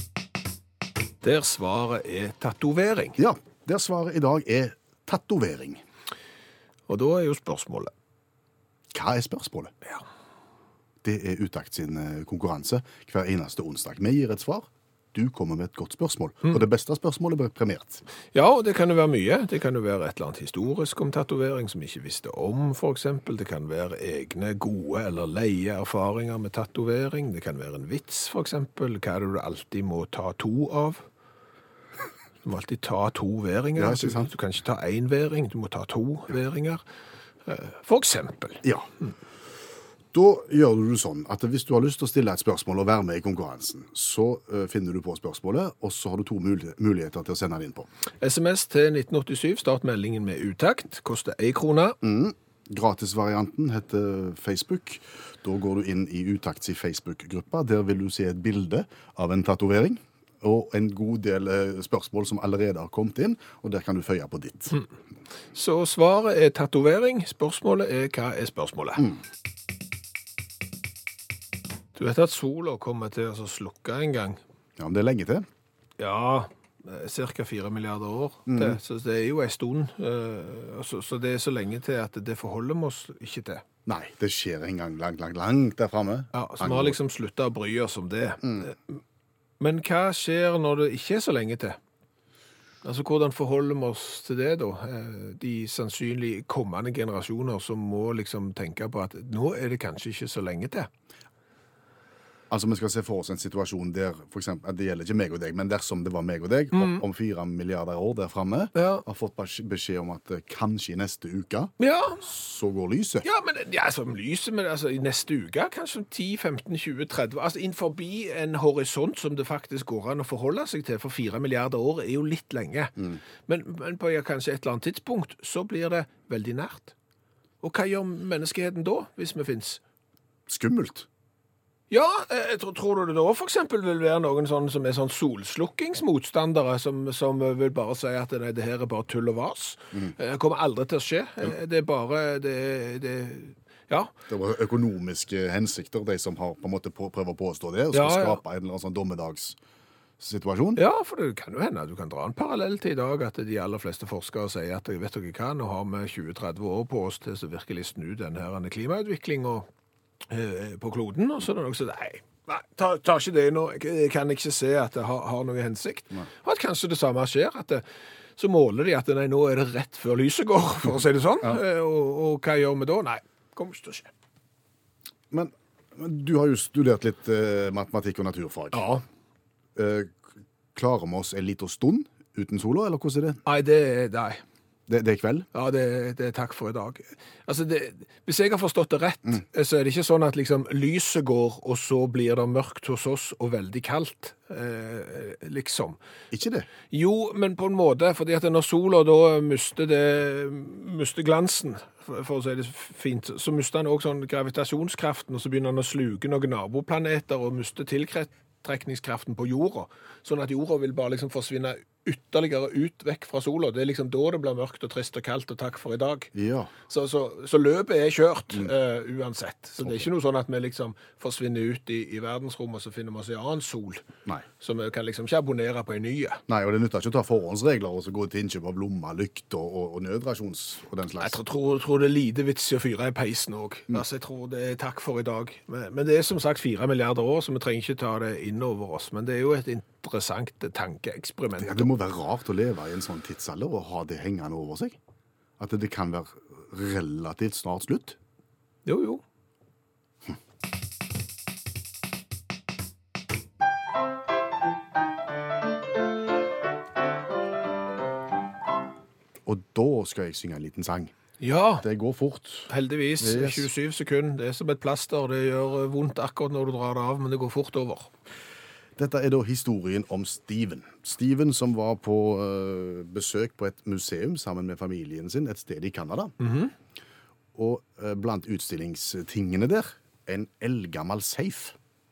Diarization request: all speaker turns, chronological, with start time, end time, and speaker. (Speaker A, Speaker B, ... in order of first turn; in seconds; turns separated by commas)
Speaker A: 1.2-3.2, Speaker B: 3.2-5.8, Speaker A: 6.9-7.9, Speaker B: 8.9-9.7, Speaker B: 11.0-18.0, Speaker A: 18.3-31.0, Speaker A: 32.4-36.8, Speaker B: 33.8-34.3, Speaker A: 37.5-38.6, Speaker B: 38.6-38.9, Speaker B: 40.1-47.9, Speaker A: 48.2-52.0, Speaker B: 52.0-64.8, Speaker A: 65.5-69.1, Speaker A: 72.0-74.4, Speaker B: 74.8-75.5, Speaker A: 76.0-83.6, Speaker B: 78.5-78.8, Speaker B: 83.9-87.0, Speaker A: 86.3-89.0, Speaker B: 88.4-88.7, Speaker A: 89.6-91.8, Speaker A: 92.8-100.9, Speaker B: 102.5-113.2, Speaker A: 106.8-107.0, Speaker A: 108.8-109.0, Speaker A: 111.8-112.2, Speaker A: 113.2-126.9, Speaker A: 127.6-129.8, Speaker B: 130.5-131.1, Speaker A: 131.9-144.1, Speaker B: 144.3-149.6, Speaker A: 147.9-148.4, Speaker B: 150.2-150.8, Speaker A: 150.8-159.7, Speaker A: 160.3-167.8, Speaker A: 168.4-174.1, Speaker B: 175.3-178.8, Speaker A: 178.7-179.0, Speaker B: 179.8-183.4, Speaker A: 183.4-184.4, Speaker B: 184.9-185.5, Speaker A: 185.5-196.0, Speaker B: 196.3-196.7, Speaker A: 196.9-216.3, Speaker B: 216.3-216.7, Speaker A: 216.9-224.1, Speaker B: 219.8-220.1, Speaker A: 224.6-226.4, Speaker B: 226.5-231.4, Speaker A: 231.2-241.9, Speaker B: 241.6-245.0, Speaker B: 245.6-248.2, Speaker A: 248.9-249.2, Speaker B: 259.5-261.1, Speaker A: 261.4-261.9, Speaker B: 261.8-263.7, Speaker A: 262.7-268.1, Speaker B: 269.0-276.3, Speaker A: 276.4-276.7, Speaker B: 277.6-281.8